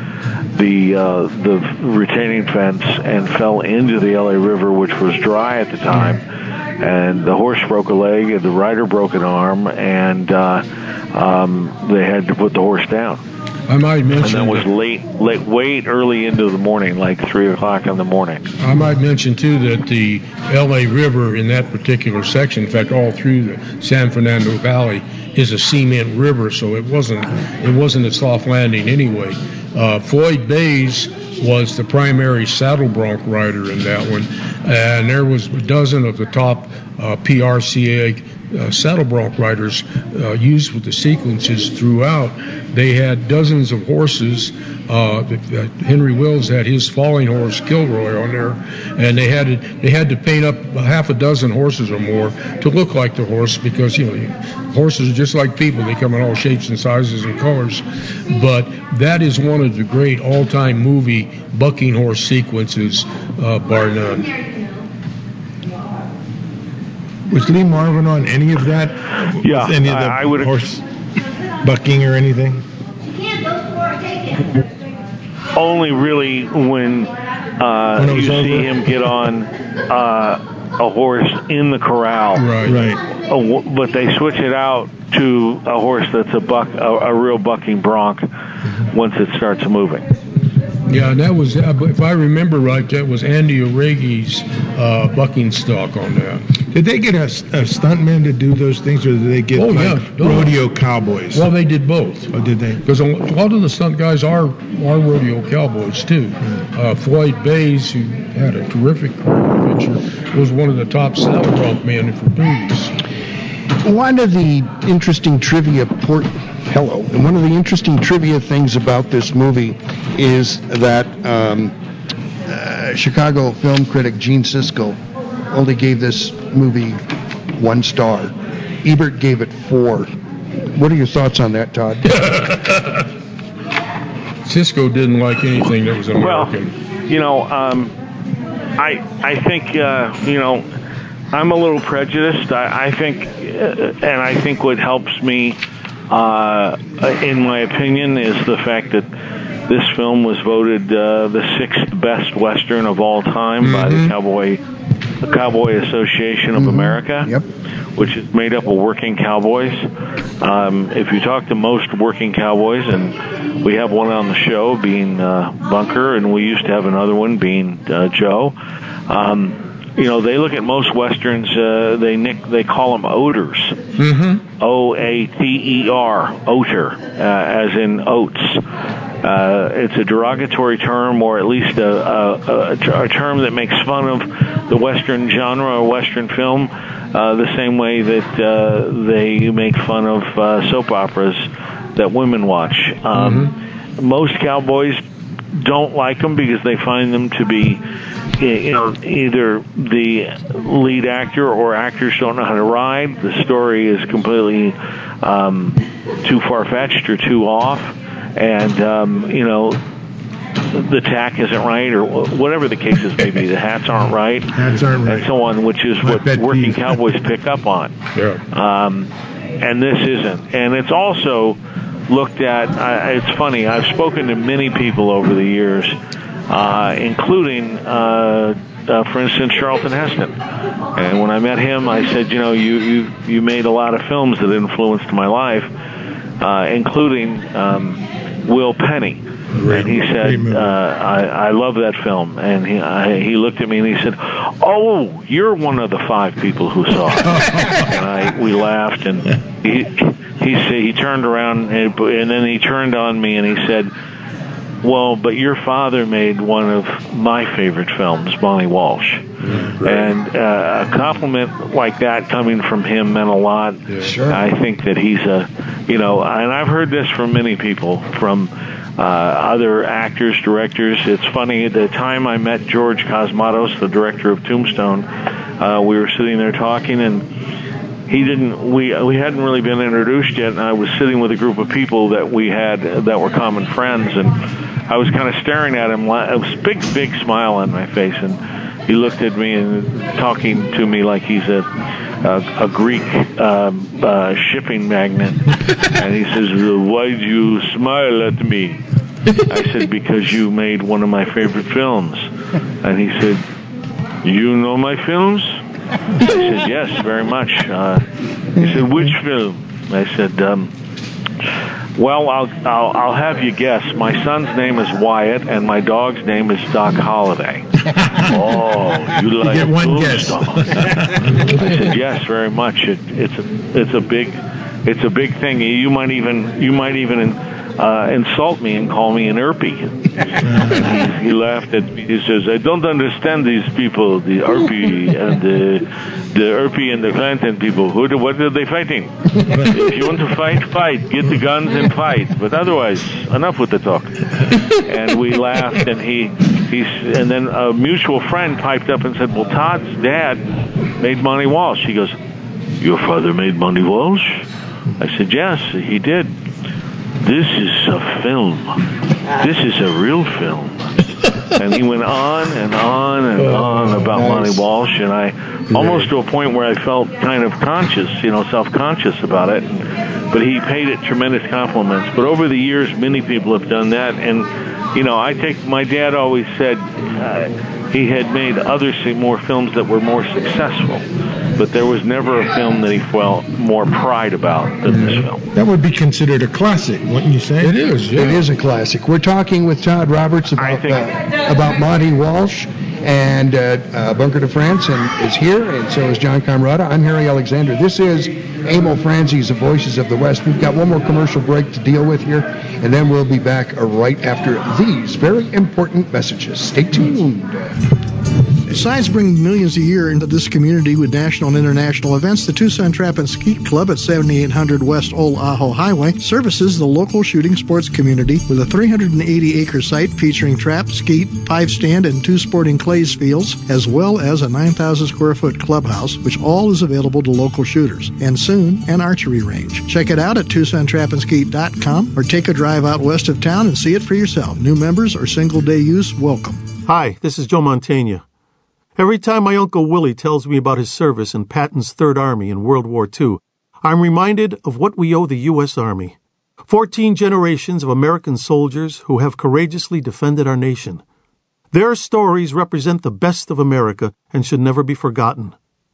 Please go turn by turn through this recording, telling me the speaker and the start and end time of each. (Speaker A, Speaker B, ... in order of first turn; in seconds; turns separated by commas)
Speaker A: 0.6-6.2, Speaker A: 6.8-13.2, Speaker B: 13.7-14.7, Speaker A: 14.2-18.5, Speaker B: 18.6-64.3, Speaker C: 67.3-70.8, Speaker A: 69.4-70.6, Speaker C: 71.6-72.6, Speaker A: 75.5-82.5, Speaker C: 78.0-78.8, Speaker B: 82.3-82.8, Speaker C: 82.7-83.0, Speaker A: 83.3-88.3, Speaker A: 88.9-90.0, Speaker B: 90.9-96.4, Speaker C: 96.7-101.5, Speaker B: 99.5-100.6, Speaker B: 101.3-102.3, Speaker C: 102.3-102.8, Speaker B: 102.8-112.9, Speaker D: 113.8-121.7, Speaker D: 122.5-125.0, Speaker D: 125.5-127.0, Speaker D: 127.6-130.1, Speaker D: 130.7-132.4, Speaker B: 132.1-133.0, Speaker B: 134.5-136.7, Speaker A: 136.1-137.9, Speaker A: 138.8-140.7, Speaker A: 141.3-149.1, Speaker A: 149.7-154.6, Speaker B: 153.6-154.1, Speaker A: 155.2-157.4, Speaker D: 156.6-157.4, Speaker A: 158.0-159.9, Speaker A: 160.4-168.6, Speaker A: 169.1-173.8, Speaker B: 174.0-174.4, Speaker A: 174.5-178.6, Speaker A: 179.2-195.0, Speaker B: 193.2-193.5, Speaker A: 195.5-197.8, Speaker A: 198.4-209.8, Speaker A: 210.7-217.9, Speaker C: 214.5-215.3, Speaker C: 216.0-217.0, Speaker B: 218.2-218.4, Speaker A: 218.5-221.6, Speaker A: 222.1-226.0, Speaker A: 226.5-230.4, Speaker A: 231.0-235.7, Speaker A: 236.4-253.9, Speaker B: 239.5-239.9, Speaker C: 239.6-240.7, Speaker C: 247.3-247.8, Speaker A: 254.8-275.1, Speaker B: 259.4-260.1, Speaker B: 263.9-264.2, Speaker A: 275.6-277.3, Speaker A: 278.1-291.7, Speaker A: 292.2-298.8, Speaker A: 299.4-302.3, Speaker A: 302.8-303.4, Speaker A: 304.2-305.6, Speaker A: 306.2-310.7, Speaker A: 312.0-350.4, Speaker C: 318.0-318.3, Speaker C: 319.4-321.3, Speaker B: 321.3-321.9, Speaker C: 330.4-330.9, Speaker A: 351.0-352.2, Speaker A: 352.8-354.4, Speaker A: 355.0-356.3, Speaker A: 357.2-358.8, Speaker A: 359.4-361.0, Speaker A: 361.5-381.1, Speaker B: 363.4-364.1, Speaker D: 364.2-364.6, Speaker A: 381.6-385.4, Speaker B: 384.9-385.2, Speaker C: 385.5-387.8, Speaker B: 387.6-388.4, Speaker D: 388.1-407.8, Speaker A: 390.6-391.1, Speaker E: 408.7-436.6, Speaker F: 436.9-438.2, Speaker F: 439.0-451.0, Speaker F: 451.7-455.6